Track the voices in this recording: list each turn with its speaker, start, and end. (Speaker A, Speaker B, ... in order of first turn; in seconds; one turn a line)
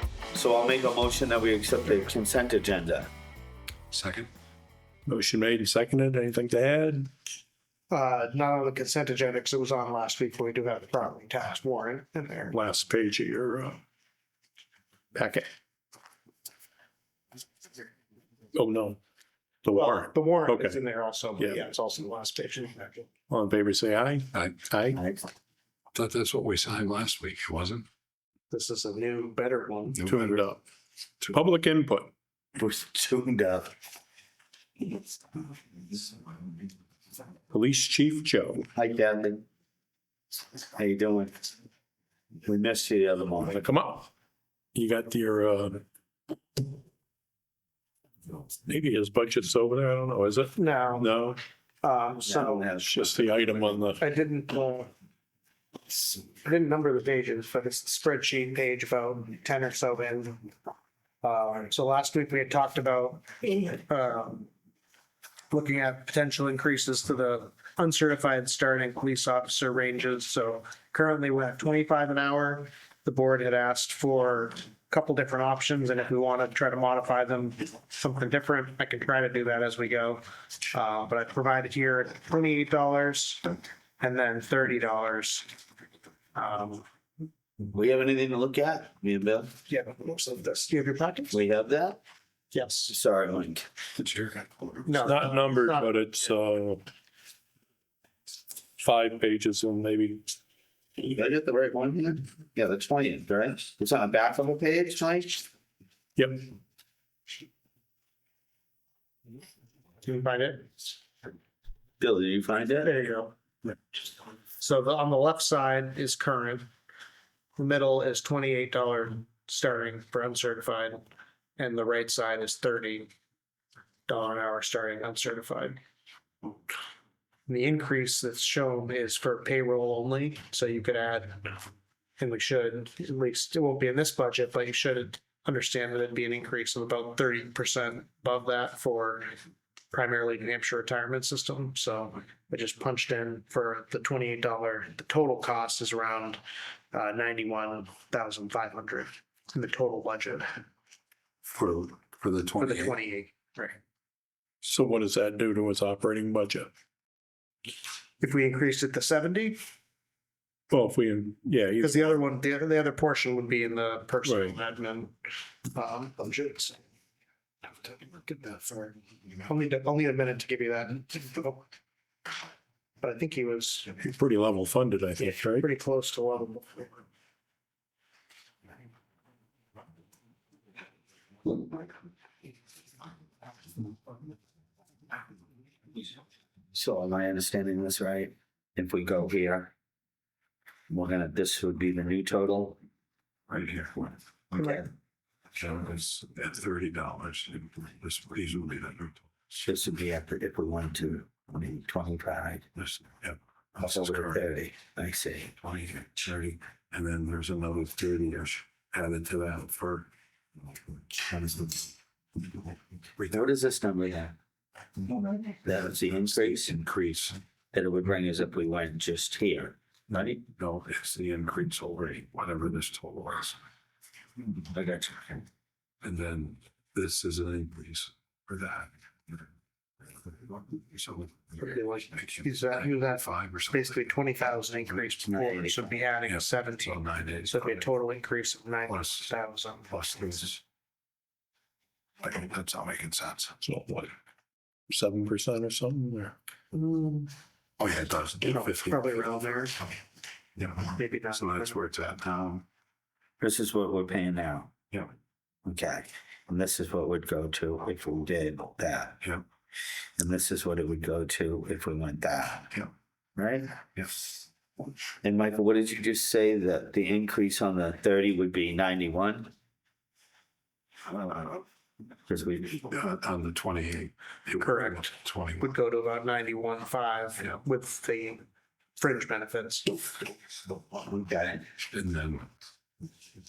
Speaker A: 0.3-3.1
Speaker B: 3.9-4.3
Speaker C: 5.0-7.1
Speaker D: 7.9-12.6
Speaker C: 12.5-13.8
Speaker C: 15.1-15.5
Speaker C: 18.5-19.0
Speaker C: 19.6-20.8
Speaker D: 19.7-23.1
Speaker C: 23.3-25.0
Speaker B: 24.3-24.6
Speaker A: 24.9-25.2
Speaker B: 25.9-27.9
Speaker D: 28.5-30.0
Speaker B: 30.0-30.3
Speaker C: 30.0-30.6
Speaker C: 31.2-32.1
Speaker A: 32.5-33.7
Speaker C: 37.5-38.6
Speaker A: 38.7-39.5
Speaker A: 40.7-41.5
Speaker A: 42.4-43.6
Speaker C: 43.5-44.1
Speaker C: 44.7-45.8
Speaker C: 48.6-51.4
Speaker D: 50.6-51.1
Speaker D: 51.8-52.8
Speaker A: 52.2-53.8
Speaker C: 52.8-54.0
Speaker D: 54.0-54.9
Speaker D: 55.9-60.5
Speaker D: 61.2-64.5
Speaker D: 65.5-83.5
Speaker D: 84.0-85.5
Speaker D: 86.3-86.8
Speaker A: 87.7-89.5
Speaker D: 89.7-91.4
Speaker A: 91.3-92.0
Speaker D: 92.5-92.9
Speaker A: 92.9-93.7
Speaker B: 94.0-94.5
Speaker D: 94.8-96.0
Speaker C: 94.9-96.8
Speaker C: 98.8-100.2
Speaker A: 101.0-105.5
Speaker C: 106.2-106.5
Speaker D: 110.0-110.9
Speaker A: 112.0-113.0
Speaker D: 112.8-113.3
Speaker D: 114.6-116.7
Speaker D: 117.5-123.1
Speaker D: 124.1-125.8
Speaker D: 127.5-131.7
Speaker D: 132.2-139.3
Speaker D: 139.9-146.4
Speaker D: 146.9-150.5
Speaker B: 151.4-152.9
Speaker D: 152.6-153.8
Speaker C: 154.6-156.7
Speaker D: 158.2-159.6
Speaker C: 160.7-162.1
Speaker D: 161.8-165.1
Speaker C: 164.2-164.5
Speaker D: 165.7-166.8
Speaker D: 167.7-171.7
Speaker D: 173.0-173.9
Speaker C: 174.0-175.7
Speaker D: 175.2-176.9
Speaker A: 186.7-189.7
Speaker A: 190.9-192.8
Speaker B: 193.5-194.1
Speaker A: 194.5-194.9
Speaker B: 195.5-199.2
Speaker A: 199.6-202.7
Speaker B: 202.8-204.4
Speaker A: 203.8-205.6
Speaker B: 205.6-210.1
Speaker A: 211.3-211.7
Speaker A: 213.3-214.3
Speaker A: 215.6-216.8
Speaker B: 216.3-217.4
Speaker A: 217.7-220.4
Speaker B: 220.6-223.6
Speaker A: 224.6-225.4
Speaker B: 226.0-228.9
Speaker B: 230.9-234.1
Speaker D: 231.6-239.9
Speaker A: 235.2-236.0
Speaker B: 236.3-237.9
Speaker B: 238.9-239.3
Speaker B: 239.9-240.6
Speaker B: 242.2-243.6
Speaker C: 243.6-244.1
Speaker C: 244.9-246.3
Speaker D: 246.7-247.3
Speaker B: 247.8-249.3
Speaker D: 248.4-249.8
Speaker B: 250.6-252.6
Speaker D: 250.9-251.8
Speaker A: 253.4-254.7
Speaker A: 255.6-259.2
Speaker A: 260.2-262.8
Speaker A: 263.4-263.8
Speaker B: 263.9-264.2
Speaker A: 265.2-269.5
Speaker A: 272.3-272.9
Speaker B: 272.8-275.6
Speaker D: 274.6-278.4
Speaker D: 279.0-280.0
Speaker A: 280.9-281.7
Speaker B: 281.9-282.4